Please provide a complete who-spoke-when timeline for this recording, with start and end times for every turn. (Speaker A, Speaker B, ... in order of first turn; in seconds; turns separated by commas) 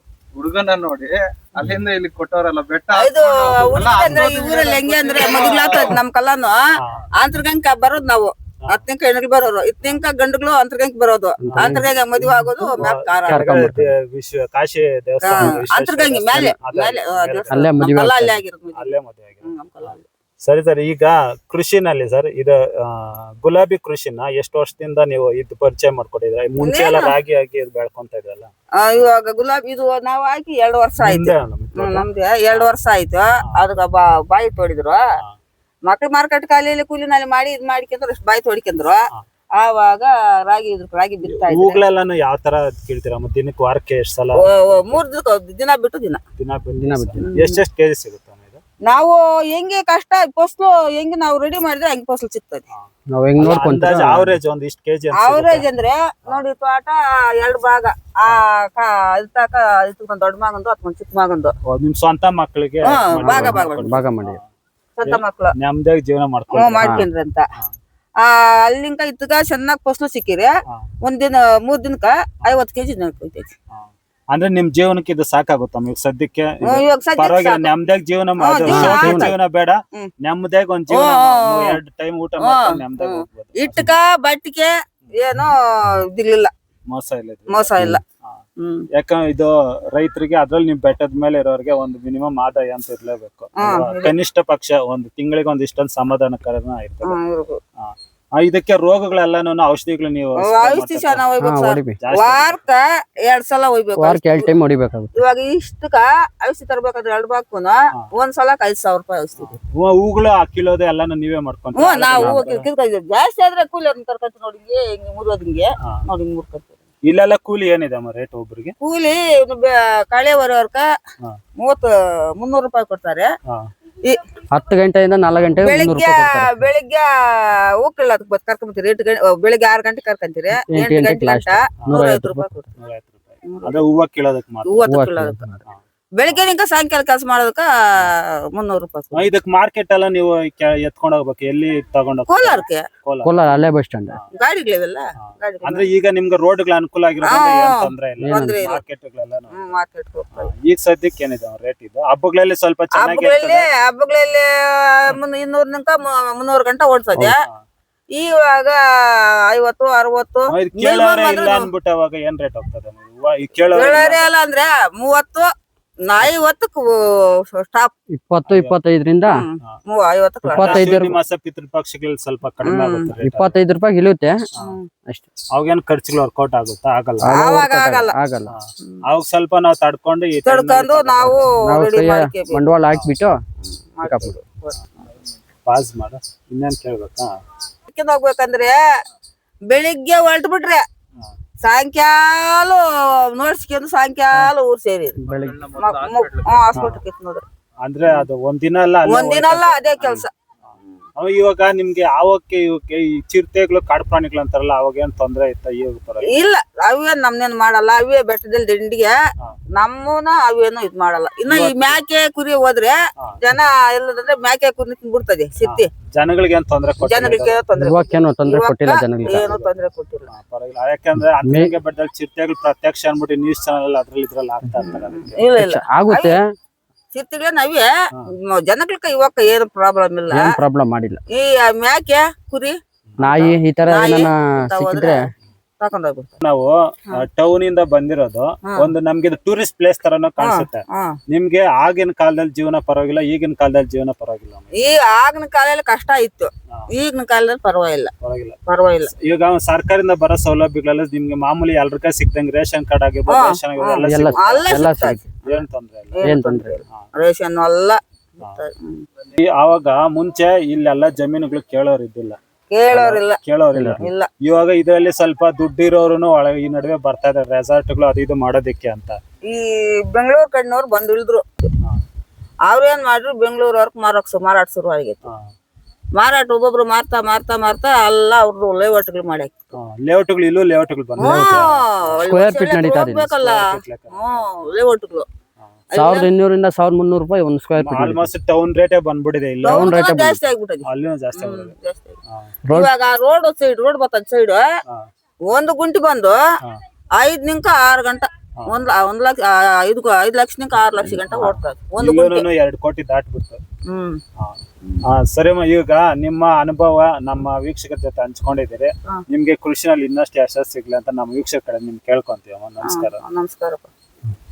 Speaker A: 0.3-6.0, Speaker B: 2.9-6.6, Speaker C: 3.9-4.2, Speaker C: 5.3-5.9, Speaker B: 7.2-13.5, Speaker D: 11.4-11.9, Speaker C: 11.5-17.8, Speaker D: 13.3-13.9, Speaker B: 15.2-18.9, Speaker D: 15.3-15.6, Speaker D: 17.5-18.4, Speaker C: 18.8-28.5, Speaker B: 19.4-20.0, Speaker B: 26.6-27.1, Speaker B: 28.8-35.0, Speaker C: 31.0-32.7, Speaker B: 35.9-39.0, Speaker B: 39.6-41.8, Speaker C: 41.3-45.0, Speaker B: 44.4-46.2, Speaker C: 46.4-48.6, Speaker D: 46.8-47.2, Speaker B: 47.2-47.5, Speaker B: 48.8-52.6, Speaker D: 53.1-54.4, Speaker C: 53.4-55.6, Speaker B: 55.1-61.5, Speaker C: 61.6-64.4, Speaker B: 62.9-63.9, Speaker D: 63.2-64.4, Speaker B: 65.0-65.5, Speaker C: 65.0-67.0, Speaker B: 66.5-67.5, Speaker B: 68.2-70.5, Speaker B: 71.0-73.5, Speaker C: 73.7-83.9, Speaker B: 76.6-77.7, Speaker B: 78.4-79.3, Speaker D: 78.6-79.3, Speaker B: 80.9-81.8, Speaker B: 82.4-86.5, Speaker C: 86.9-88.4, Speaker B: 87.5-88.0, Speaker B: 88.6-88.8, Speaker C: 88.9-97.2, Speaker B: 93.6-94.1, Speaker B: 97.0-97.6, Speaker C: 97.8-101.2, Speaker B: 100.5-104.5, Speaker D: 101.4-102.0, Speaker C: 102.0-102.6, Speaker D: 104.0-105.1, Speaker B: 105.2-109.6, Speaker C: 109.4-112.7, Speaker B: 111.8-116.8, Speaker D: 112.2-112.5, Speaker C: 117.0-118.7, Speaker B: 118.8-120.9, Speaker B: 121.6-123.3, Speaker B: 124.0-124.3, Speaker D: 124.5-126.5, Speaker B: 125.6-132.7, Speaker D: 130.5-132.5, Speaker C: 132.8-134.9, Speaker B: 133.5-133.8, Speaker B: 134.7-135.4, Speaker D: 134.9-135.6, Speaker C: 135.7-136.5, Speaker B: 136.2-139.3, Speaker C: 139.1-143.6, Speaker B: 142.3-142.8, Speaker D: 143.2-144.2, Speaker B: 144.3-145.8, Speaker C: 145.6-149.7, Speaker B: 147.2-148.8, Speaker D: 148.2-148.6, Speaker B: 149.5-150.5, Speaker C: 150.3-153.7, Speaker B: 153.0-157.4, Speaker C: 157.2-157.6, Speaker B: 158.2-161.6, Speaker C: 160.5-164.2, Speaker B: 163.7-165.5, Speaker B: 166.1-167.0, Speaker B: 167.5-167.9, Speaker D: 168.1-169.4, Speaker C: 168.4-168.8, Speaker B: 169.2-170.9, Speaker D: 170.4-171.2, Speaker C: 170.5-173.6, Speaker B: 172.6-173.1, Speaker D: 173.2-174.4, Speaker B: 174.6-174.9, Speaker C: 175.5-177.4, Speaker D: 177.2-178.5, Speaker B: 177.3-178.1, Speaker C: 178.5-181.4, Speaker B: 180.4-182.6, Speaker D: 181.6-183.4, Speaker B: 183.9-184.7, Speaker D: 184.0-184.4, Speaker C: 185.6-187.3, Speaker B: 187.9-188.8, Speaker B: 189.7-190.8, Speaker B: 191.6-192.8, Speaker B: 193.3-195.2, Speaker D: 195.2-195.7, Speaker A: 195.3-196.7, Speaker B: 195.7-197.4, Speaker C: 196.7-197.0, Speaker C: 197.8-200.2, Speaker B: 199.1-200.3, Speaker C: 201.2-206.4, Speaker B: 206.3-209.2, Speaker B: 209.8-215.9, Speaker C: 211.5-212.0, Speaker C: 215.6-217.6, Speaker B: 217.0-220.3, Speaker D: 217.8-219.5, Speaker C: 219.2-219.7, Speaker C: 220.3-225.4, Speaker D: 221.4-221.7, Speaker B: 224.8-226.3, Speaker D: 225.6-226.4, Speaker B: 227.1-227.9, Speaker B: 228.5-230.4, Speaker D: 230.3-231.2, Speaker B: 231.3-235.2, Speaker C: 233.2-233.5, Speaker D: 233.2-235.2, Speaker B: 235.8-236.3, Speaker C: 236.4-244.7, Speaker B: 240.4-241.2, Speaker B: 244.8-248.1, Speaker C: 248.2-248.6, Speaker B: 248.7-249.1, Speaker C: 249.1-254.9, Speaker B: 253.3-255.6, Speaker D: 254.0-255.3, Speaker C: 255.4-256.2, Speaker B: 256.2-259.0, Speaker D: 256.2-256.8, Speaker C: 259.3-262.4, Speaker B: 262.7-263.4, Speaker C: 262.9-269.2, Speaker D: 263.7-264.1, Speaker B: 264.0-264.3, Speaker B: 269.5-271.4, Speaker B: 272.7-275.3, Speaker B: 276.2-279.6, Speaker C: 279.7-282.2, Speaker D: 281.2-281.7, Speaker B: 281.2-283.6, Speaker D: 282.3-283.4, Speaker C: 283.4-284.2, Speaker B: 284.1-285.2, Speaker B: 285.9-286.3, Speaker D: 285.9-288.3, Speaker C: 287.8-290.0, Speaker B: 289.6-292.1, Speaker D: 289.6-290.4, Speaker C: 290.9-291.7, Speaker B: 292.7-294.6, Speaker B: 295.5-296.4, Speaker B: 297.2-302.4, Speaker C: 298.6-298.8, Speaker C: 301.0-303.6, Speaker B: 303.9-304.2, Speaker C: 305.1-313.2, Speaker B: 312.8-313.9